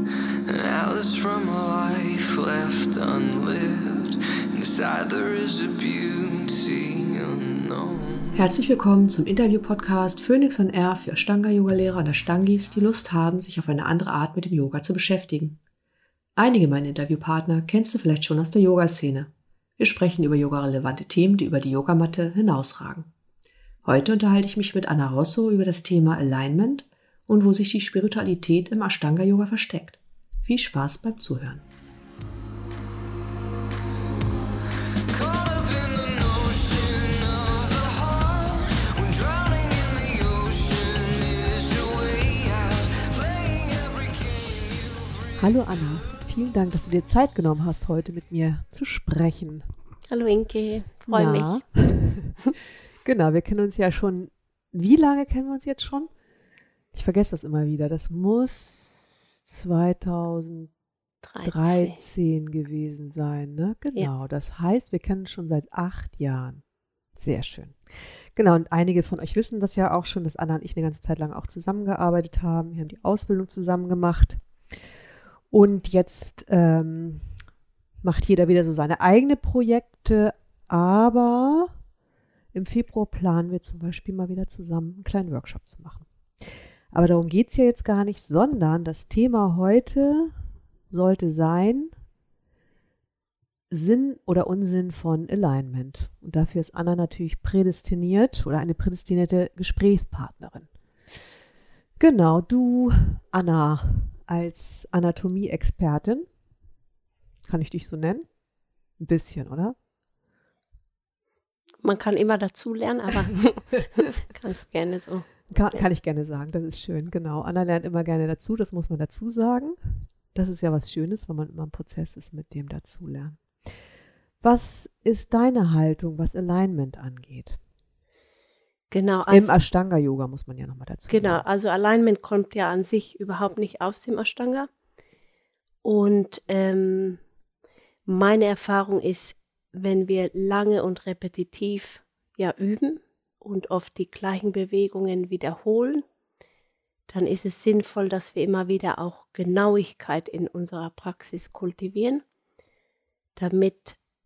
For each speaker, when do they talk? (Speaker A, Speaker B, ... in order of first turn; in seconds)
Speaker A: 0.5-8.4, 35.1-45.5
Speaker B: 8.3-15.6, 16.4-23.1, 23.8-31.6, 45.4-49.7, 51.1-52.4, 53.0-56.1, 56.9-60.7, 61.4-66.6, 67.1-74.8, 75.5-77.3, 78.0-81.7, 82.5-90.3, 90.9-91.9, 93.7-101.2, 102.0-106.3, 107.4-108.3, 109.0-109.8, 115.5-123.8, 124.4-127.6, 129.3-131.4
Speaker C: 50.1-51.6, 61.2-62.0, 111.8-115.8, 128.9-129.5, 131.1-134.7, 135.8-137.2, 138.1-146.0, 147.1-152.2, 153.3-154.0